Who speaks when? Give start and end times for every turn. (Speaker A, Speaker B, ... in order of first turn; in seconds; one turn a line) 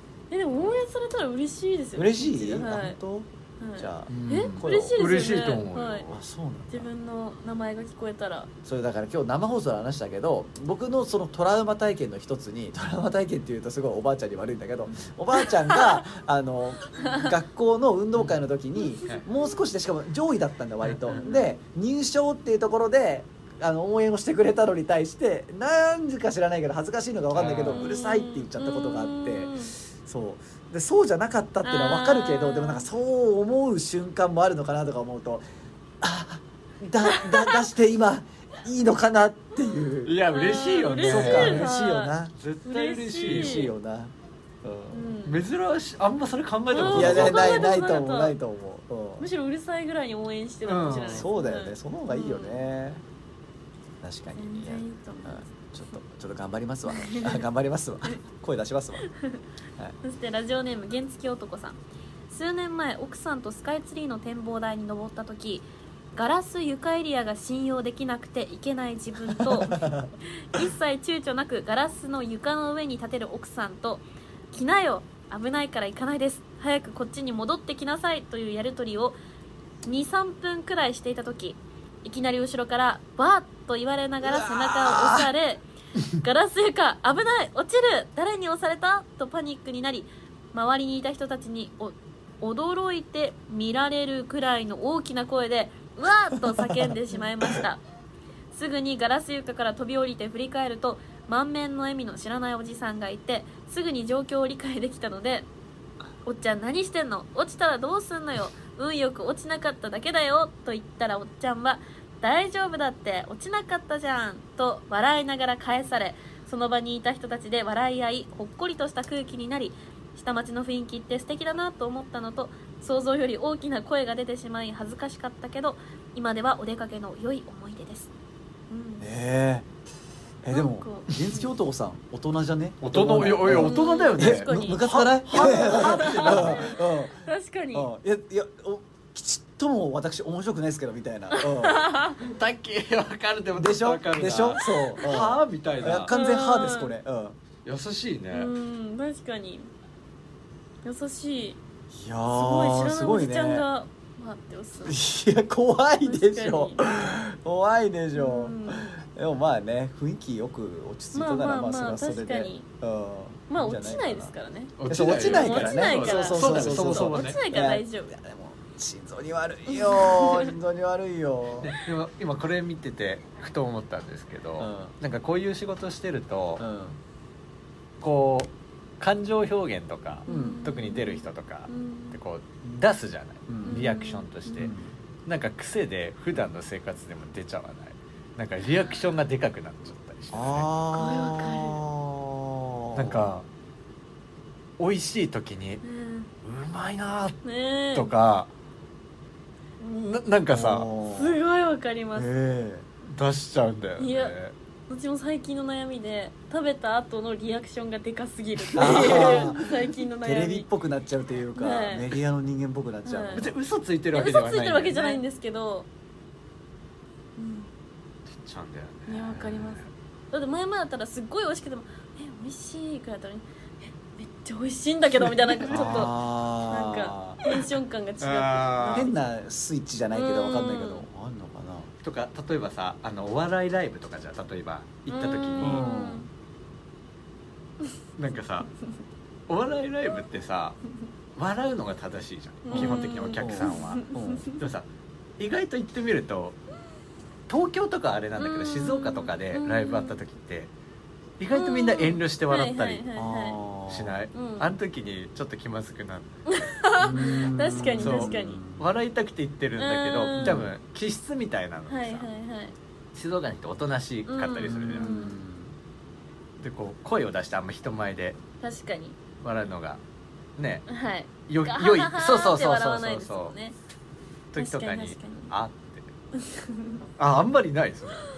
Speaker A: 0.3-3.0
Speaker B: 1.9-5.0
Speaker A: 3.6-6.1
Speaker C: 4.1-6.1
Speaker B: 6.1-6.9
Speaker A: 6.7-8.5
Speaker B: 8.6-35.5
Speaker A: 15.4-16.0
Speaker A: 19.1-19.5
Speaker C: 20.8-21.2
Speaker A: 21.2-21.6
Speaker C: 27.3-27.9
Speaker A: 27.6-29.7
Speaker A: 31.6-32.9
Speaker B: 36.0-40.2
Speaker A: 37.0-37.6
Speaker C: 40.0-41.7
Speaker A: 40.3-43.7
Speaker B: 41.0-42.3
Speaker C: 42.4-43.7
Speaker B: 43.2-45.1
Speaker A: 44.9-45.4
Speaker C: 45.2-47.6
Speaker A: 46.7-48.3
Speaker B: 46.9-49.3
Speaker A: 49.2-52.7
Speaker C: 50.6-51.2
Speaker B: 51.0-53.0
Speaker B: 54.0-59.1
Speaker A: 54.3-55.5
Speaker A: 56.9-57.4
Speaker A: 59.1-59.4
Speaker A: 60.0-61.8
Speaker A: 62.3-79.2
Speaker B: 69.3-70.1
Speaker A: 79.8-97.8
Speaker B: 84.2-85.3
Speaker B: 96.3-97.6
Speaker A: 98.5-105.5
Speaker A: 106.2-128.1
Speaker A: 128.7-129.1
Speaker B: 129.0-129.7
Speaker B: 130.4-141.9
Speaker A: 130.5-131.4
Speaker C: 132.8-136.8
Speaker A: 133.5-137.9
Speaker A: 141.3-142.2
Speaker C: 142.2-146.1
Speaker B: 143.5-147.4
Speaker A: 146.1-146.9
Speaker C: 147.6-148.5
Speaker A: 148.3-149.7
Speaker A: 150.8-151.6
Speaker B: 151.9-153.7
Speaker A: 152.3-155.0
Speaker B: 154.8-164.3
Speaker A: 156.0-157.2
Speaker A: 158.1-158.9
Speaker A: 161.1-162.7
Speaker A: 163.5-168.1
Speaker C: 164.8-167.4
Speaker B: 164.9-171.7
Speaker A: 169.7-170.5
Speaker C: 171.6-176.6
Speaker B: 174.6-174.9
Speaker B: 176.6-177.0
Speaker C: 178.0-184.7
Speaker A: 180.3-182.2
Speaker B: 180.3-180.6
Speaker B: 183.5-183.8
Speaker A: 183.6-184.7
Speaker B: 184.6-184.9
Speaker C: 185.2-190.7
Speaker B: 190.3-193.3
Speaker A: 190.9-191.8
Speaker C: 192.9-193.4
Speaker C: 194.8-195.8
Speaker A: 195.8-196.3
Speaker C: 196.4-197.4
Speaker A: 197.4-198.1
Speaker C: 197.9-198.5
Speaker C: 199.8-200.9
Speaker B: 200.5-201.4
Speaker A: 201.1-202.3
Speaker B: 202.1-202.9
Speaker C: 203.0-204.5
Speaker A: 204.0-204.3
Speaker A: 204.9-210.7
Speaker B: 208.7-213.5
Speaker C: 208.8-209.5
Speaker A: 211.5-212.1
Speaker A: 213.0-213.5
Speaker C: 213.3-215.2
Speaker A: 214.1-215.9
Speaker A: 217.4-217.7
Speaker C: 218.3-219.9
Speaker A: 219.1-226.1
Speaker B: 225.6-227.4
Speaker C: 225.7-226.1
Speaker A: 226.7-229.1
Speaker C: 228.2-229.1
Speaker B: 228.9-231.9
Speaker A: 230.1-231.0
Speaker C: 232.0-235.8
Speaker A: 235.1-236.3
Speaker B: 235.6-236.2
Speaker C: 238.2-238.7
Speaker C: 239.5-240.8
Speaker C: 241.3-244.8
Speaker A: 242.7-244.6
Speaker B: 242.7-244.5
Speaker C: 245.4-246.6
Speaker C: 247.5-250.7
Speaker A: 248.4-250.2
Speaker C: 251.4-253.0
Speaker A: 251.5-253.6
Speaker B: 253.1-254.2
Speaker C: 253.9-256.6
Speaker A: 254.3-254.7
Speaker A: 256.5-258.6
Speaker B: 257.0-258.9
Speaker C: 258.0-262.3
Speaker A: 259.8-260.7
Speaker B: 260.4-260.7
Speaker A: 261.9-262.7
Speaker C: 263.1-265.3
Speaker A: 264.3-265.4
Speaker B: 264.6-265.7
Speaker C: 266.6-268.4
Speaker A: 268.6-269.2
Speaker C: 269.4-270.0
Speaker C: 270.6-270.9
Speaker A: 270.9-273.7
Speaker C: 271.5-273.5
Speaker C: 274.5-276.1
Speaker A: 274.6-275.5
Speaker A: 276.4-277.0
Speaker C: 277.2-278.2